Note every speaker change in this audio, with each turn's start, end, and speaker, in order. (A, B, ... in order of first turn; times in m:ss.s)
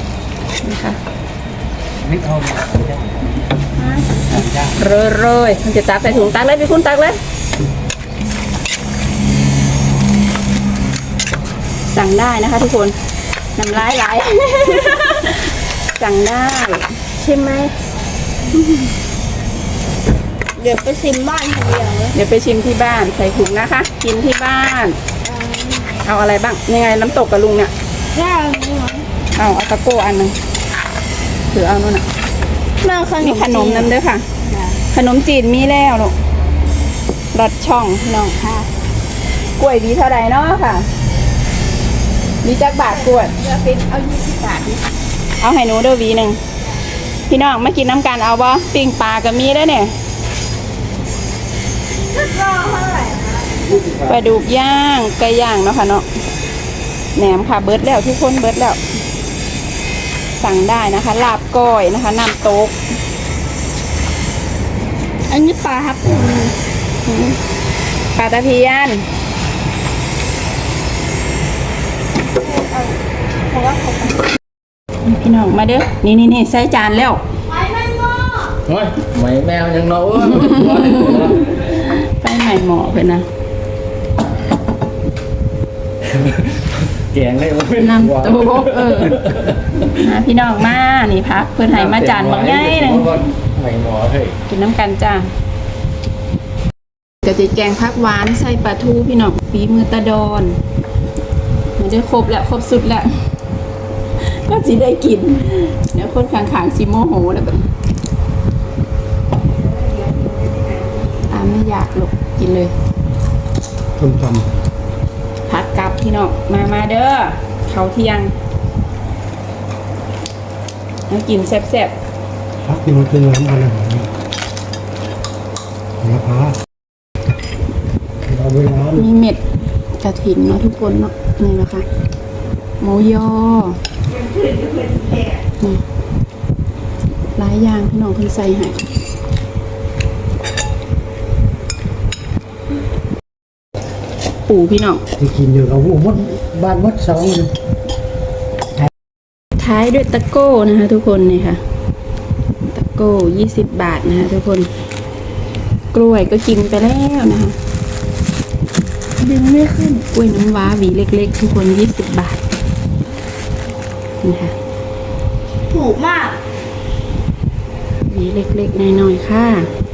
0:00.6-0:01.0 A
0:02.0-0:03.1 B
0:03.8-0:07.2 A
0:11.9-0:13.0 A
0:13.6-0:17.7 A
0:20.6-0:22.1 C
0:22.1-0:25.0 A
0:25.2-0:25.9 C
0:26.0-0:27.7 A
0:28.1-0:29.1 C
0:29.4-0:30.4 A
0:31.5-0:32.0 A
0:32.8-0:34.8 C
0:33.2-0:34.2 A
0:34.9-0:36.1 A
0:37.3-0:38.4 A
0:38.4-0:38.7 C
0:39.6-0:40.9 A
0:42.4-0:43.4 A
0:43.2-0:44.8 C
0:45.4-0:46.4 A
0:47.3-0:49.9 A
0:52.1-0:53.8 C
0:54.0-0:56.1 A
0:57.1-0:58.8 A
1:00.4-1:02.8 A
1:05.3-1:06.5 C
1:07.0-1:07.4 A
1:08.1-1:09.0 A
1:12.4-1:13.0 C
1:13.5-1:14.3 C
1:15.0-1:17.2 A
1:17.5-1:18.5 C
1:18.7-1:21.4 B
1:21.1-1:23.2 A
1:26.1-1:29.5 B
1:27.8-1:29.2 A
1:29.9-1:33.1 A
1:31.7-1:34.4 B
1:34.5-1:35.3 A
1:37.2-1:40.6 A
1:41.8-1:43.1 A
1:44.2-1:47.7 A
1:50.0-1:50.8 C
1:51.3-1:52.7 A
1:54.0-1:54.5 D
1:55.5-1:58.3 A
2:01.1-2:01.9 A
2:02.6-2:04.1 D
2:06.0-2:06.6 D
2:08.2-2:09.1 D
2:09.0-2:09.4 A
2:10.0-2:11.8 A
2:12.8-2:13.8 A
2:14.1-2:15.3 C
2:17.4-2:18.9 A
2:24.5-2:25.0 A
2:25.2-2:27.5 D
2:29.6-2:31.6 A
2:32.7-2:34.7 A
2:35.9-2:37.6 A
2:39.2-2:40.0 C
2:40.0-2:42.4 A
2:44.2-2:44.5 A
2:45.7-2:46.4 C
2:48.1-2:49.7 A